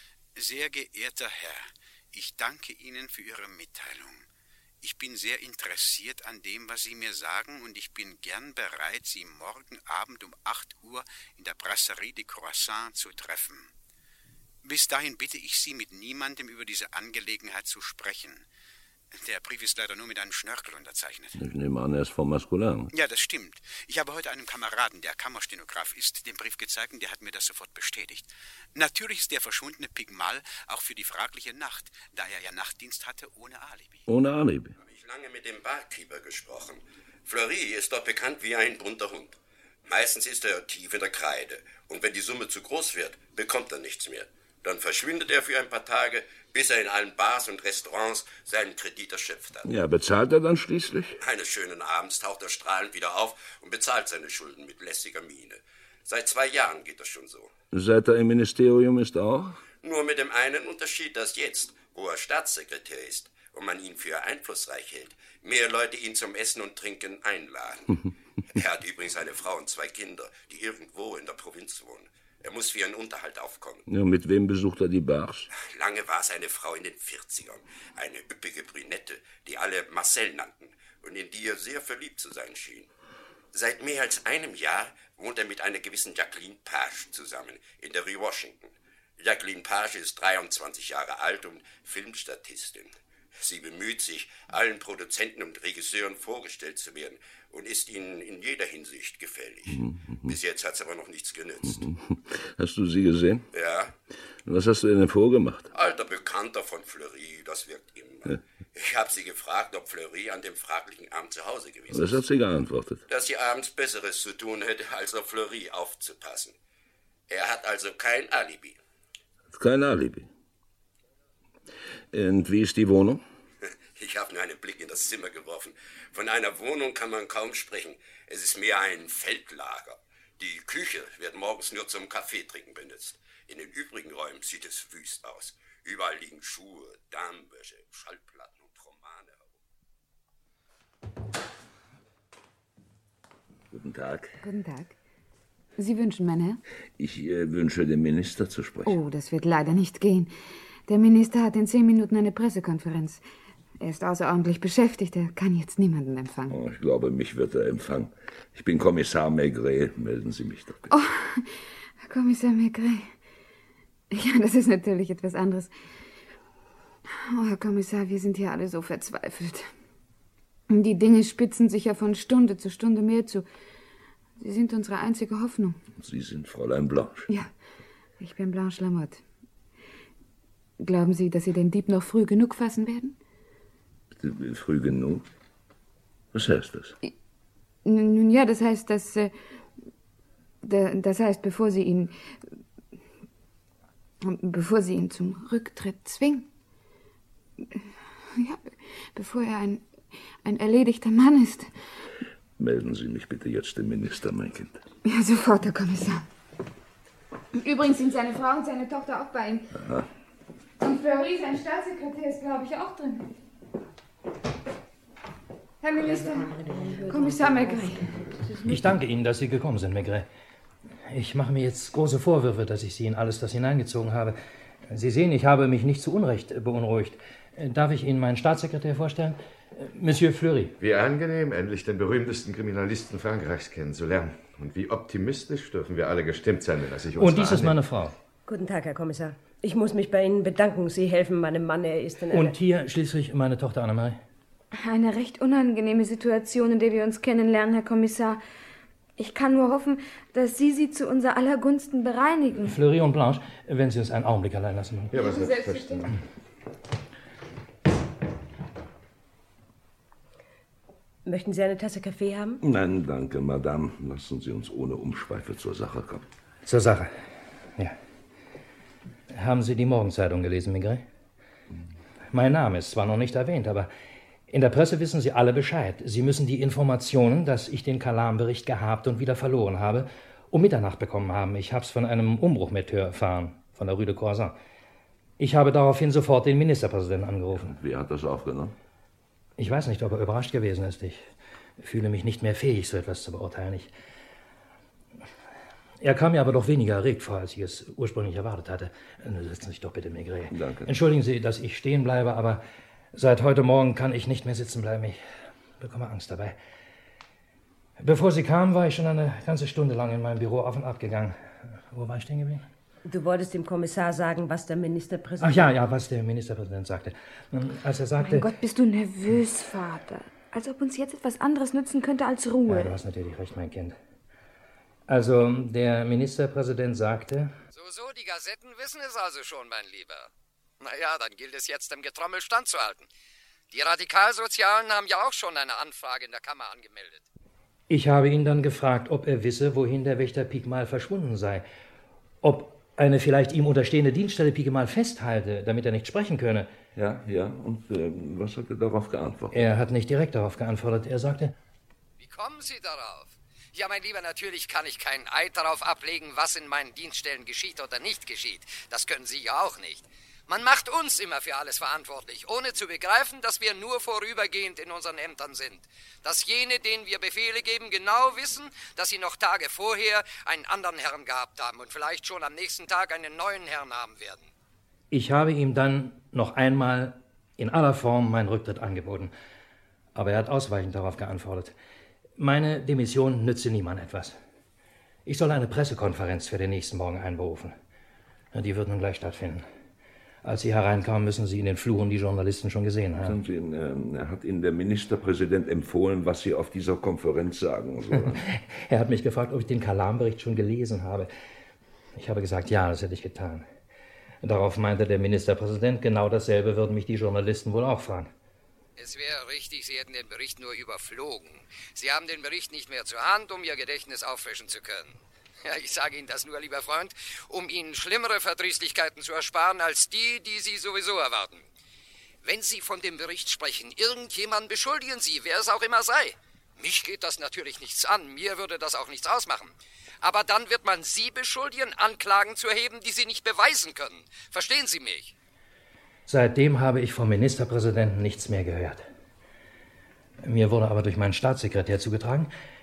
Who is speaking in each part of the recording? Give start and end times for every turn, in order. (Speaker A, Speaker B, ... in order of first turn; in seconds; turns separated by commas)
Speaker A: 0.4-4.3, Speaker A: 4.8-13.7, Speaker A: 14.6-18.5, Speaker A: 19.1-21.4, Speaker B: 21.4-22.9, Speaker A: 22.9-34.0, Speaker B: 34.1-34.8, Speaker C: 34.8-49.6, Speaker B: 49.6-51.2, Speaker C: 51.2-57.5, Speaker B: 57.7-59.6, Speaker C: 59.8-73.8, Speaker B: 73.9-75.5, Speaker C: 75.5-82.9, Speaker C: 83.5-101.8, Speaker B: 99.7-100.3, Speaker B: 101.6-103.5, Speaker C: 103.5-103.9, Speaker B: 104.5-105.7, Speaker C: 105.7-112.2, Speaker B: 111.9-113.0, Speaker C: 113.1-116.5, Speaker C: 117.3-118.8, Speaker B: 119.5-120.3, Speaker B: 122.1-123.2, Speaker C: 124.0-139.5, Speaker B: 143.7-144.4, Speaker D: 144.4-144.9, Speaker D: 145.8-146.6, Speaker B: 147.0-149.0, Speaker D: 148.9-150.3, Speaker D: 150.9-153.2, Speaker D: 153.8-156.6, Speaker B: 156.5-160.9, Speaker D: 160.9-161.5, Speaker D: 162.0-163.1, Speaker D: 164.1-165.7, Speaker D: 167.3-169.7, Speaker D: 170.7-173.5, Speaker D: 174.4-175.8, Speaker B: 176.0-177.3, Speaker D: 178.2-179.2, Speaker D: 180.8-183.2, Speaker B: 184.1-185.3, Speaker B: 186.3-187.0, Speaker D: 187.8-189.3, Speaker D: 190.6-192.1, Speaker D: 194.2-196.5, Speaker D: 198.4-199.8, Speaker D: 200.4-201.7, Speaker B: 202.6-204.8, Speaker D: 205.1-206.2, Speaker D: 207.6-209.7, Speaker B: 209.8-210.1, Speaker D: 210.8-213.3, Speaker D: 215.8-218.2, Speaker E: 216.0-218.9, Speaker F: 218.6-220.3, Speaker F: 221.1-224.4, Speaker F: 224.9-230.7, Speaker G: 230.8-237.8, Speaker F: 237.2-238.2, Speaker E: 238.5-242.6, Speaker F: 242.3-244.2, Speaker D: 244.8-248.4, Speaker D: 249.2-252.8, Speaker F: 252.6-255.2, Speaker G: 255.1-256.1, Speaker D: 255.2-256.1, Speaker E: 261.2-262.6, Speaker B: 262.6-266.2, Speaker F: 266.7-267.2, Speaker F: 269.3-271.1, Speaker F: 272.3-273.9, Speaker F: 274.5-284.6, Speaker F: 285.4-287.7, Speaker B: 287.5-288.7, Speaker F: 289.6-291.3, Speaker F: 291.8-293.9, Speaker F: 296.0-302.6, Speaker B: 300.5-300.9, Speaker F: 303.1-305.2, Speaker F: 305.8-306.6, Speaker F: 308.0-311.4, Speaker F: 311.9-312.7, Speaker E: 313.1-315.7, Speaker F: 315.4-318.5, Speaker D: 318.2-323.0, Speaker F: 322.7-324.0, Speaker F: 325.1-327.5, Speaker H: 327.7-330.3, Speaker H: 330.8-333.1, Speaker H: 333.7-337.2, Speaker F: 337.9-341.7, Speaker F: 342.4-346.7, Speaker B: 346.9-349.6, Speaker F: 349.5-351.6, Speaker H: 352.2-374.5, Speaker F: 375.1-379.3, Speaker F: 380.1-381.7, Speaker F: 382.4-384.4, Speaker F: 385.3-387.8, Speaker F: 388.5-389.7, Speaker F: 390.4-393.4, Speaker B: 393.2-398.4, Speaker F: 398.4-401.3, Speaker F: 402.2-403.7, Speaker F: 404.4-408.3, Speaker H: 409.0-421.6, Speaker H: 422.4-435.3, Speaker F: 436.3-439.1, Speaker F: 440.4-442.5